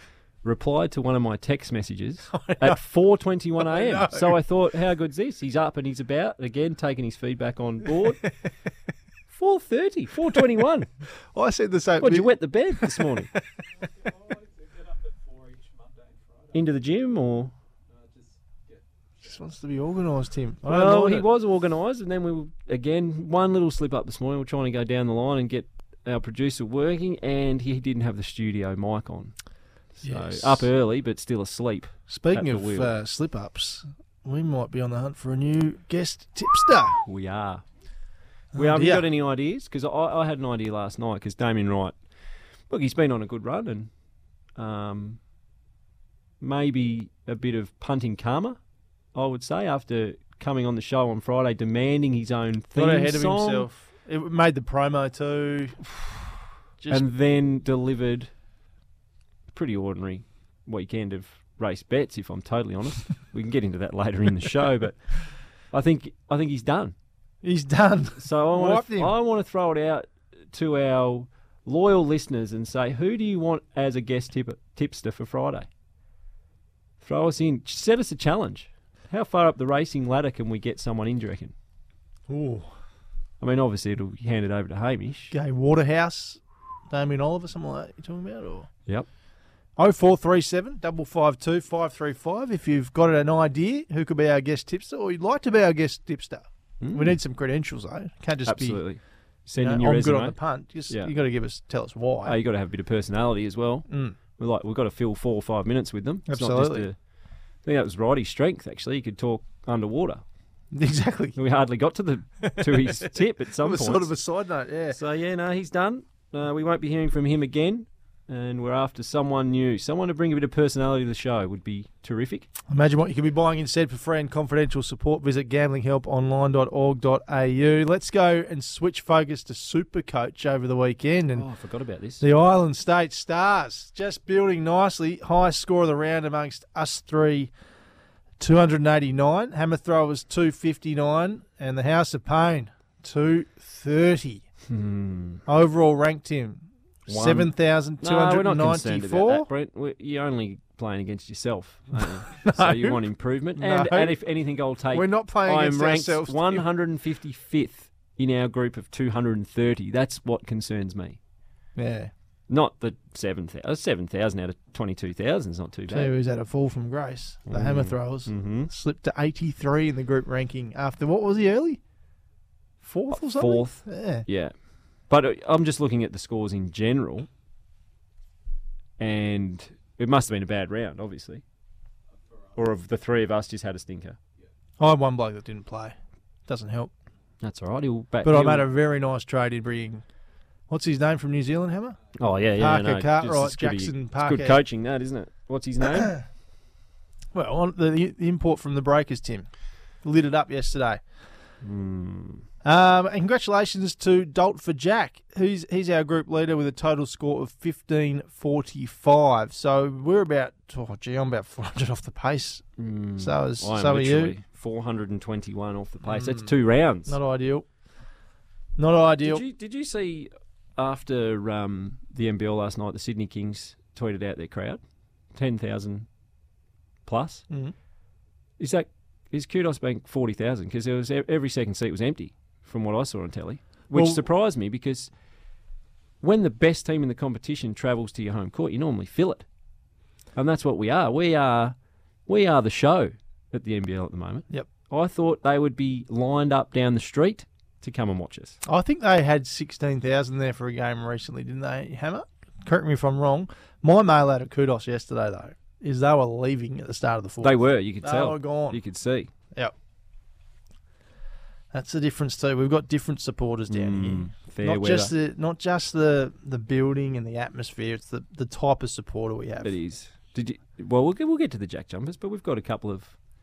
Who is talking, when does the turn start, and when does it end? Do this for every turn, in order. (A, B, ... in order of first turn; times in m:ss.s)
0:00.4-0:08.2 A
0:02.3-0:02.8 B
0:03.6-0:04.4 B
0:09.3-0:10.9 A
0:11.3-0:13.4 B
0:12.0-0:13.3 A
0:16.5-0:17.5 A
0:19.2-0:21.2 B
0:20.6-0:29.3 A
0:30.0-0:30.7 B
0:30.0-0:32.9 A
0:32.1-0:37.0 B
0:37.0-0:37.6 A
0:38.5-0:39.1 B
0:38.5-0:42.0 A
0:42.7-0:43.9 A
0:44.6-0:45.2 A
0:46.4-0:48.6 A
0:49.1-0:53.6 A
0:52.8-0:55.8 B
0:56.8-0:57.1 B
0:56.9-0:58.3 A
0:59.5-1:05.0 A
1:05.7-1:06.9 A
1:07.4-1:09.1 B
1:08.2-1:15.7 A
1:17.0-1:21.5 A
1:22.3-1:22.7 B
1:23.4-1:25.3 A
1:25.3-1:28.7 B
1:29.8-1:38.8 B
1:36.8-1:37.2 A
1:38.5-1:40.4 A
1:39.6-1:42.4 B
1:42.2-1:47.0 A
1:43.9-1:44.2 B
1:46.3-1:46.8 B
1:47.6-1:50.2 A
1:50.7-1:51.4 B
1:51.4-1:54.1 A
1:52.4-1:55.0 B
1:54.9-2:02.5 A
2:02.7-2:11.4 B
2:11.3-2:12.2 A
2:12.2-2:17.5 B
2:18.4-2:24.4 B
2:24.7-2:25.4 A
2:25.4-2:29.5 B
2:27.1-2:27.5 A
2:28.0-2:41.2 A
2:32.0-2:33.0 B
2:33.5-2:34.2 B
2:34.9-2:36.7 B
2:41.8-2:42.1 B
2:42.5-2:46.1 A
2:45.9-2:51.8 B
2:47.5-2:48.7 A
2:52.8-2:54.2 B
2:53.1-2:54.5 A
2:55.1-2:57.3 A
2:59.0-3:01.4 A
3:02.5-3:04.2 A
3:04.8-3:05.9 B
3:06.5-3:06.9 B
3:07.4-3:08.7 A
3:08.2-3:10.0 B
3:10.7-3:12.0 B
3:12.2-3:16.1 A
3:12.6-3:14.6 B
3:15.8-3:16.2 B
3:17.3-3:19.5 B
3:20.0-3:21.0 B
3:21.6-3:22.4 A
3:22.6-3:32.6 B
3:32.8-3:37.2 A
3:33.2-3:34.3 B
3:36.0-3:36.5 B
3:37.0-3:37.6 B
3:38.8-3:39.4 B
3:39.2-3:44.8 A
3:45.3-3:46.1 A
3:47.0-3:47.4 A
3:48.6-3:55.1 A
3:53.9-3:54.2 B
3:56.2-3:59.4 A
4:00.4-4:01.7 A
4:02.3-4:08.6 A
4:08.6-4:18.8 B
4:17.4-4:19.3 A
4:21.7-4:29.7 B
4:23.7-4:25.1 A
4:29.6-4:33.2 A